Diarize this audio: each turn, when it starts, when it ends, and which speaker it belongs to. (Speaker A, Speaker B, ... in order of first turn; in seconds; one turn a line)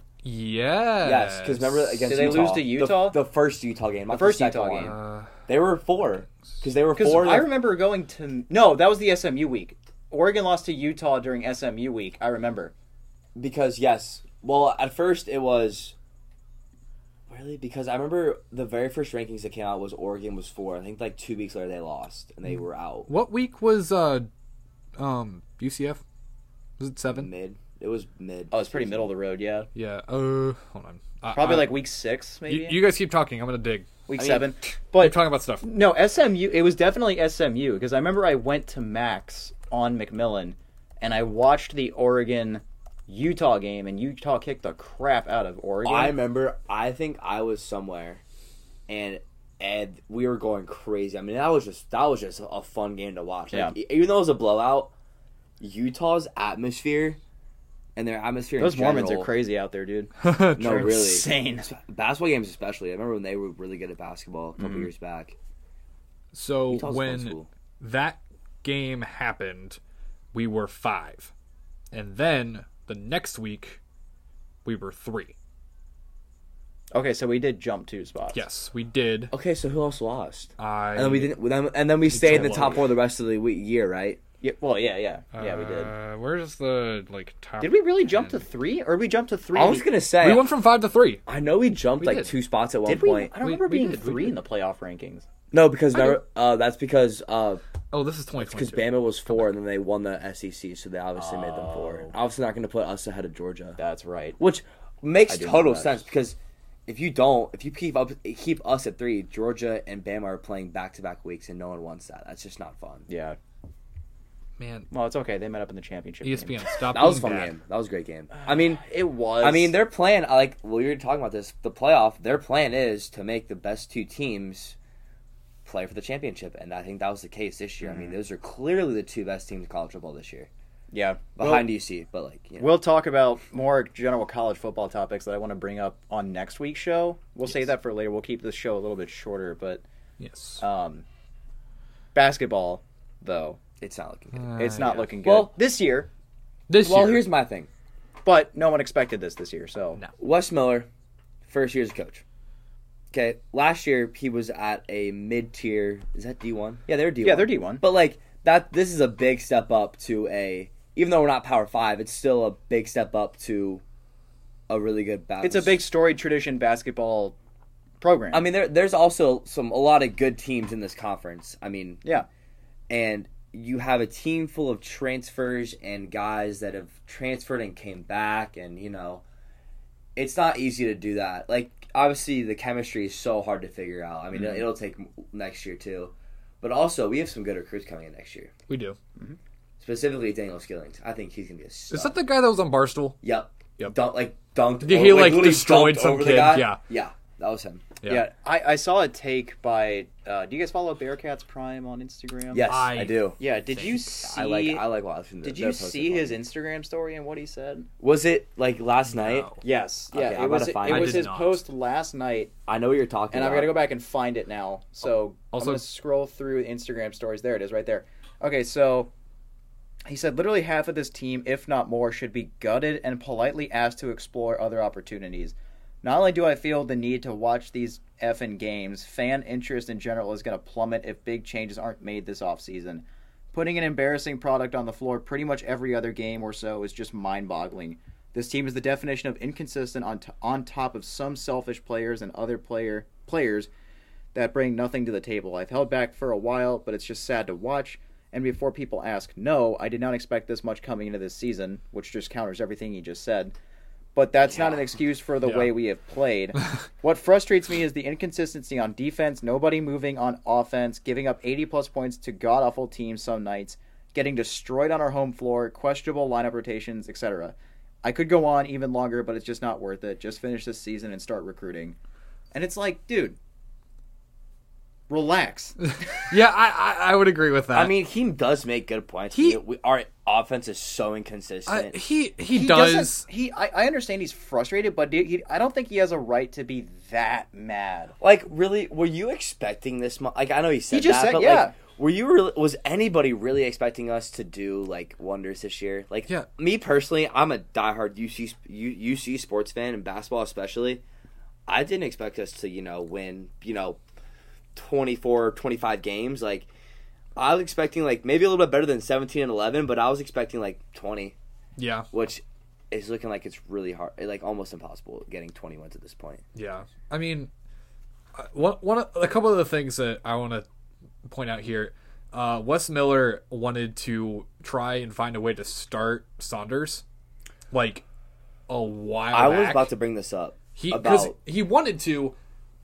Speaker A: 0.2-2.3
Speaker B: 1.0-7.5
Speaker C: 2.1-3.2
Speaker C: 4.1-5.0
Speaker A: 4.8-5.3
Speaker C: 7.0-12.7
Speaker B: 13.3-15.9
Speaker B: 17.3-23.1
Speaker A: 23.1-24.3
Speaker A: 25.0-26.0
Speaker A: 26.8-27.3
Speaker B: 27.1-29.1
Speaker C: 28.5-29.7
Speaker A: 29.7-31.8
Speaker C: 31.3-32.8
Speaker A: 32.5-33.9
Speaker C: 34.1-46.2
Speaker B: 34.2-34.5
Speaker A: 35.0-35.6
Speaker B: 45.8-48.2
Speaker B: 48.9-54.9
Speaker B: 55.6-57.2
Speaker B: 58.0-59.3
Speaker C: 58.6-61.7
Speaker A: 60.2-61.0
Speaker B: 60.6-65.3
Speaker C: 64.6-64.9
Speaker A: 66.3-69.8
Speaker B: 66.7-67.5
Speaker A: 70.3-71.3
Speaker A: 71.9-73.8
Speaker A: 74.6-75.3
Speaker C: 76.9-78.4
Speaker A: 78.3-79.3
Speaker B: 79.3-84.2
Speaker A: 80.6-81.3
Speaker A: 82.1-82.8
Speaker C: 84.4-85.9
Speaker A: 85.3-88.4
Speaker C: 87.6-89.8
Speaker B: 89.5-90.5
Speaker A: 90.2-91.2
Speaker B: 91.2-93.3
Speaker A: 92.0-92.3
Speaker C: 92.8-95.2
Speaker A: 93.4-94.4
Speaker B: 95.5-97.6
Speaker A: 97.9-98.9
Speaker B: 98.4-103.8
Speaker C: 101.2-102.1
Speaker C: 103.8-104.4
Speaker B: 104.4-113.1
Speaker C: 105.3-106.0
Speaker C: 113.1-113.4
Speaker A: 114.6-114.9
Speaker C: 114.9-116.6
Speaker A: 116.2-117.5
Speaker B: 116.9-118.8
Speaker C: 118.3-119.8
Speaker B: 119.4-124.8
Speaker B: 125.6-130.5
Speaker C: 127.8-128.2
Speaker C: 130.9-131.7
Speaker B: 131.4-132.7
Speaker C: 132.6-139.8
Speaker A: 140.2-140.6
Speaker C: 140.6-141.0
Speaker C: 142.1-143.6
Speaker B: 143.8-144.4
Speaker A: 144.3-145.1
Speaker C: 144.5-146.1
Speaker B: 145.2-145.5
Speaker A: 146.7-147.2
Speaker B: 146.8-147.7
Speaker C: 148.2-150.0
Speaker B: 150.2-150.9
Speaker B: 151.4-152.2
Speaker B: 153.1-163.8
Speaker C: 157.2-157.8
Speaker B: 164.7-165.8
Speaker C: 165.4-167.3
Speaker C: 168.0-168.5
Speaker B: 168.3-172.0
Speaker B: 172.9-179.2
Speaker B: 180.2-188.5
Speaker C: 184.3-184.6
Speaker A: 188.7-189.0
Speaker B: 189.8-192.1
Speaker A: 191.9-193.2
Speaker B: 193.2-198.0
Speaker A: 194.8-196.8
Speaker C: 198.0-202.7
Speaker B: 202.5-203.4
Speaker A: 202.6-204.1
Speaker C: 203.4-204.8
Speaker B: 204.2-206.4
Speaker C: 205.4-207.9
Speaker B: 208.0-209.5
Speaker A: 209.1-209.6
Speaker C: 209.6-212.5
Speaker B: 210.1-211.3
Speaker A: 210.8-211.6
Speaker B: 212.7-213.8
Speaker C: 213.3-219.1
Speaker A: 215.5-215.8
Speaker C: 220.1-243.7
Speaker C: 244.3-253.5
Speaker C: 254.1-272.0
Speaker B: 254.5-254.8
Speaker A: 255.4-255.7
Speaker C: 272.5-273.4
Speaker C: 275.1-275.8
Speaker A: 275.9-277.9
Speaker B: 277.7-282.0
Speaker A: 279.3-279.6
Speaker A: 281.7-283.2
Speaker C: 282.5-288.1
Speaker B: 288.2-301.0
Speaker C: 290.9-291.7
Speaker B: 301.7-304.0
Speaker B: 304.7-306.7
Speaker B: 307.4-311.3
Speaker A: 311.8-312.1
Speaker B: 312.1-316.4
Speaker A: 316.5-317.5
Speaker A: 318.4-320.6
Speaker A: 321.2-327.0
Speaker A: 327.7-328.0
Speaker A: 328.7-329.9
Speaker B: 329.3-331.3
Speaker A: 330.8-332.4